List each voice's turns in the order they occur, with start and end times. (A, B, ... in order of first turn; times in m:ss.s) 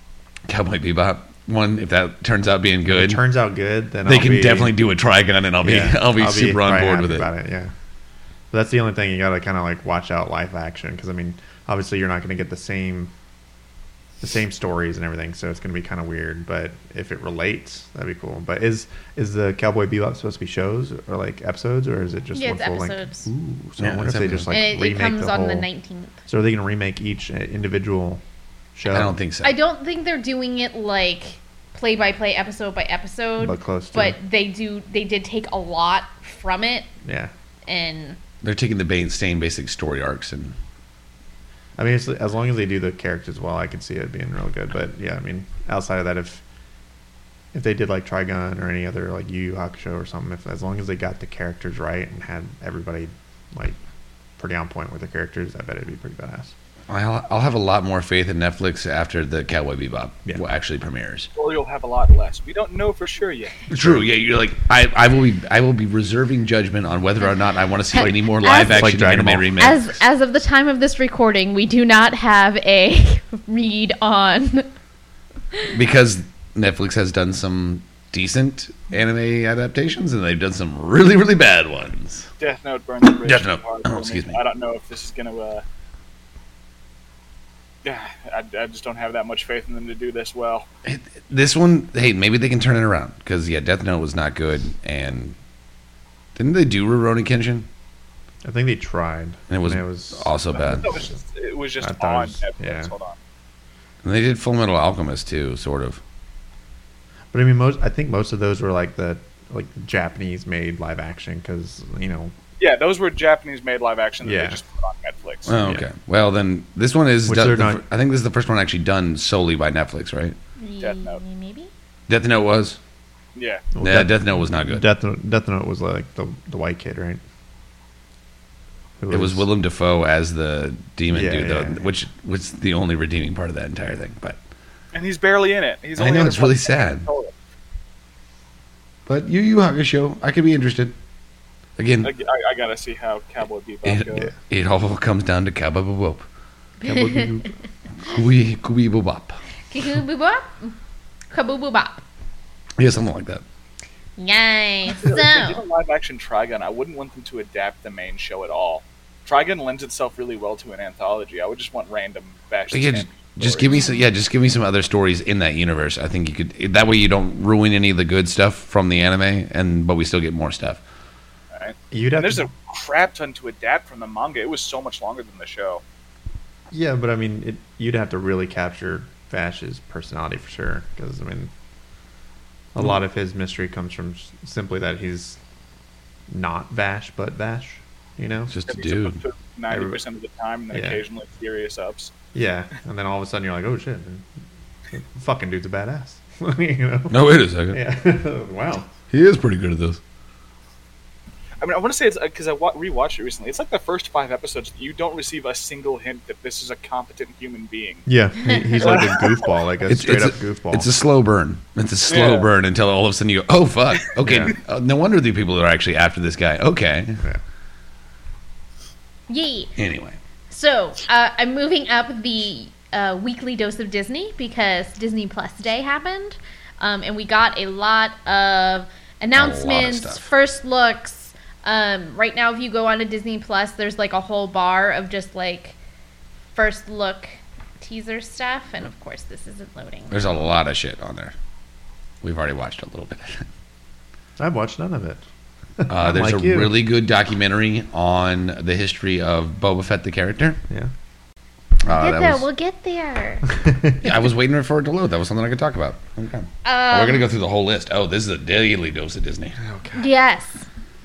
0:00.5-0:03.2 A
0:02.9-0:04.8 B
0:04.0-0:07.3 A
0:05.6-0:07.7 B
0:08.5-0:13.1 B
0:14.2-0:25.7 B
0:22.3-0:23.3 C
0:23.8-0:24.5 A
0:24.5-0:26.2 C
0:26.3-0:28.2 B
0:28.7-0:29.1 B
0:28.9-0:29.5 A
0:29.4-0:36.9 C
0:33.4-0:34.2 B
0:37.0-0:37.3 B
0:37.6-0:38.2 C
0:38.4-0:40.5 A
0:41.8-0:46.4 B
0:47.5-0:53.8 B
0:54.4-0:56.5 B
0:56.9-1:01.3 A
1:01.4-1:03.6 D
1:03.7-1:09.8 A
1:03.7-1:04.0 B
1:07.9-1:08.9 C
1:08.0-1:09.6 B
1:09.6-1:14.7 C
1:15.7-1:22.3 A
1:22.4-1:25.6 D
1:23.2-1:24.4 A
1:27.8-1:30.7 D
1:30.8-1:35.4 A
1:36.4-1:37.7 A
1:38.4-1:41.1 B
1:39.5-1:40.9 A
1:40.5-1:43.2 D
1:41.8-1:42.9 B
1:44.0-1:46.0 A
1:47.3-1:52.3 B
1:52.6-1:55.5 D
1:54.2-1:54.6 B
1:55.4-2:00.4 A
1:55.5-1:55.8 B
1:57.2-1:57.8 B
2:00.6-2:01.7 C
2:00.8-2:01.2 D
2:02.1-2:02.8 A
2:03.3-2:03.6 D
2:03.7-2:07.2 B
2:03.8-2:04.8 A
2:09.0-2:09.4 B
2:09.1-2:14.4 A
2:11.1-2:11.9 B
2:14.9-2:17.3 D
2:16.0-2:17.1 A
2:19.0-2:20.9 A
2:21.8-2:22.1 A
2:22.0-2:24.3 D
2:23.8-2:26.2 A
2:26.8-2:27.3 C
2:26.8-2:27.4 A
2:28.0-2:29.4 A
2:29.7-2:30.7 C
2:31.3-2:32.0 C
2:32.8-2:33.4 A
2:34.2-2:35.6 C
2:34.9-2:43.7 D
2:42.7-2:50.8 A
2:43.6-2:44.0 C
2:51.5-2:55.8 D
2:51.9-2:52.5 B
2:56.7-3:01.5 B
3:02.7-3:05.4 B
3:06.3-3:08.5 B
3:08.5-3:09.2 A
3:08.7-3:12.1 D
3:09.7-3:10.0 B
3:10.7-3:11.0 B
3:12.3-3:14.2 B
3:14.9-3:17.2 B
3:17.1-3:17.8 A
3:17.7-3:18.9 B
3:19.1-3:20.0 A
3:21.6-3:28.1 D
3:28.0-3:30.9 B
3:28.8-3:29.5 D
3:29.9-3:37.2 A
3:32.1-3:32.5 D
3:34.2-3:34.5 B
3:39.3-3:39.7 C
3:39.8-3:40.2 A
3:40.5-3:55.8 C
3:49.3-3:50.3 A
3:56.5-4:00.3 C
4:00.1-4:01.3 A
4:02.2-4:03.4 A
4:04.4-4:05.2 B
4:05.8-4:06.7 B
4:05.9-4:10.6 A
4:11.8-4:12.4 A
4:11.9-4:13.4 C
4:13.6-4:14.0 B
4:14.0-4:19.6 A
4:16.6-4:17.2 C
4:19.6-4:20.0 B
4:20.0-4:20.7 C